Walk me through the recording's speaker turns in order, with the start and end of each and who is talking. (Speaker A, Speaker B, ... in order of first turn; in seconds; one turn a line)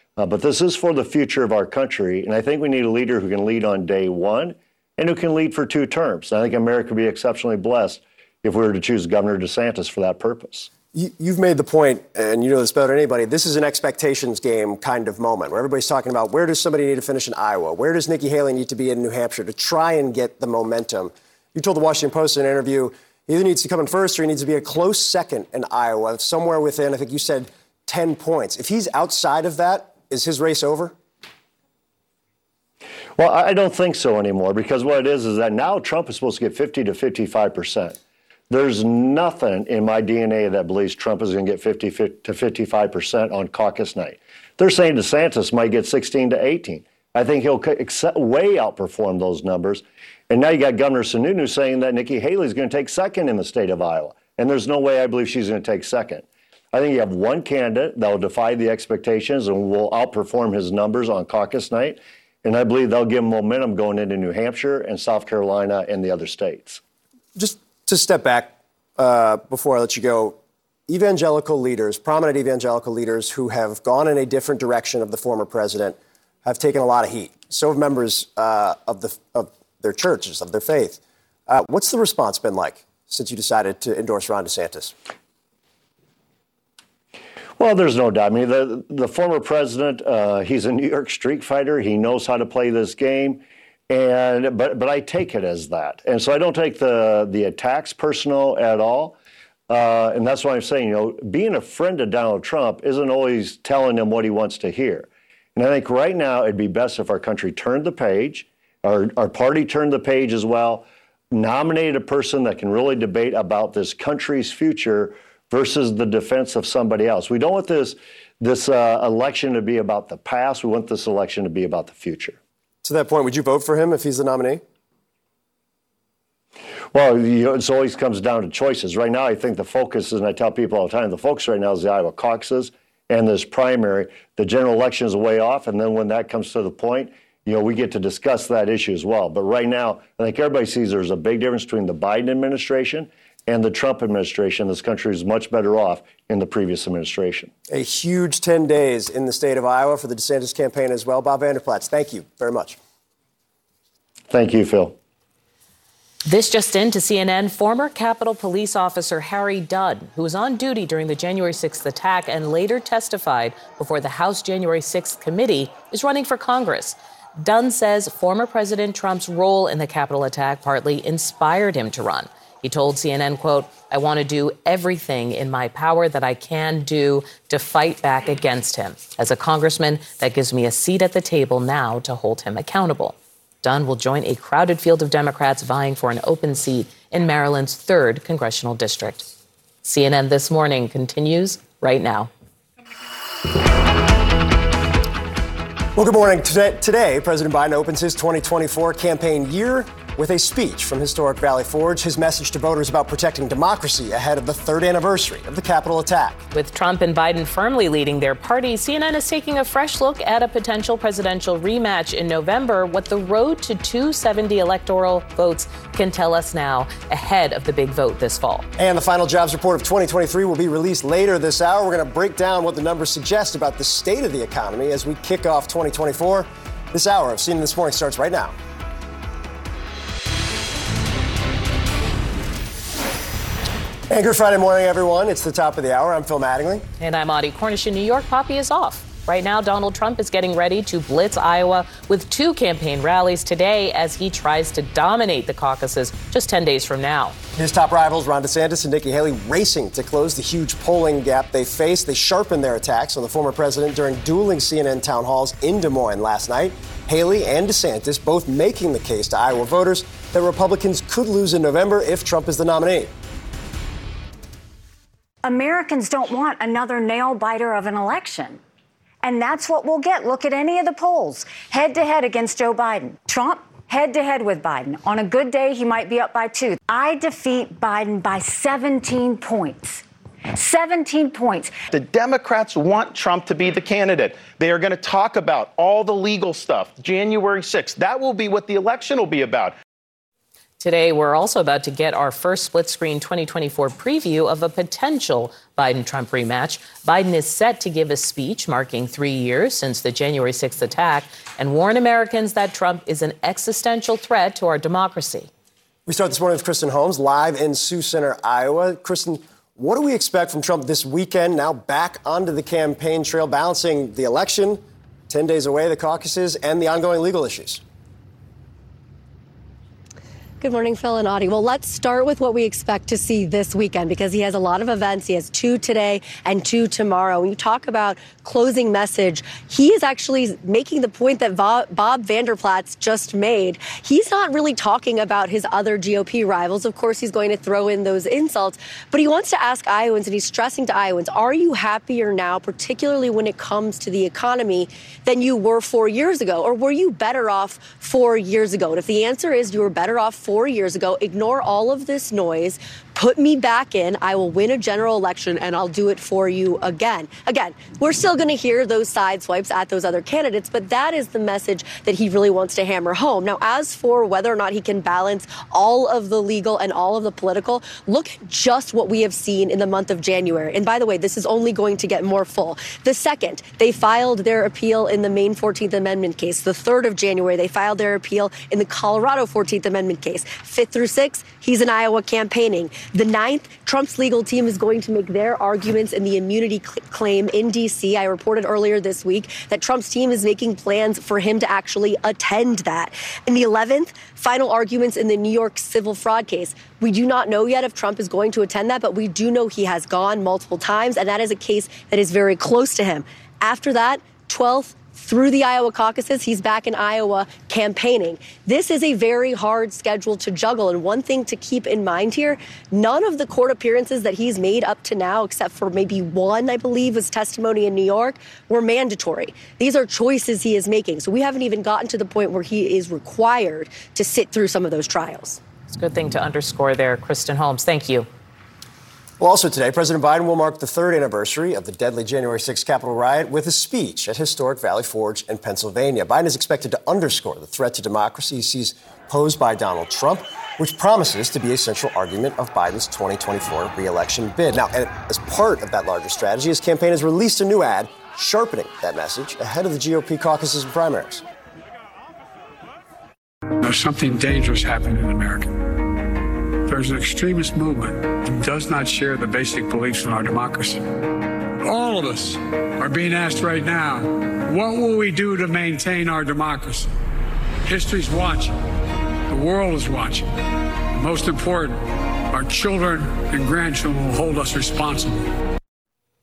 Speaker A: 0.2-10.7
Speaker B: 10.9-31.0
Speaker A: 33.2-38.0
Speaker A: 38.5-66.8
Speaker B: 67.4-70.4
Speaker B: 70.9-85.0
Speaker A: 87.6-99.2
Speaker A: 99.7-122.4
Speaker B: 122.8-124.6
Speaker A: 126.9-147.5
Speaker B: 147.7-152.8
Speaker A: 154.3-155.0
Speaker C: 156.3-189.3
Speaker C: 189.8-192.3
Speaker B: 195.9-206.4
Speaker C: 206.5-218.7
Speaker B: 218.8-228.6
Speaker B: 234.1-236.8
Speaker C: 237.0-247.4
Speaker B: 247.6-263.1
Speaker D: 265.4-268.6
Speaker D: 269.2-280.0
Speaker D: 280.6-281.8
Speaker E: 281.9-289.8
Speaker C: 290.8-305.5
Speaker B: 306.1-317.8
Speaker F: 320.6-425.6
Speaker C: 425.9-428.3
Speaker B: 429.4-451.4
Speaker G: 453.8-455.8
Speaker G: 456.9-461.0
Speaker G: 461.8-467.1
Speaker G: 467.9-468.8
Speaker G: 469.5-470.5
Speaker G: 471.2-475.5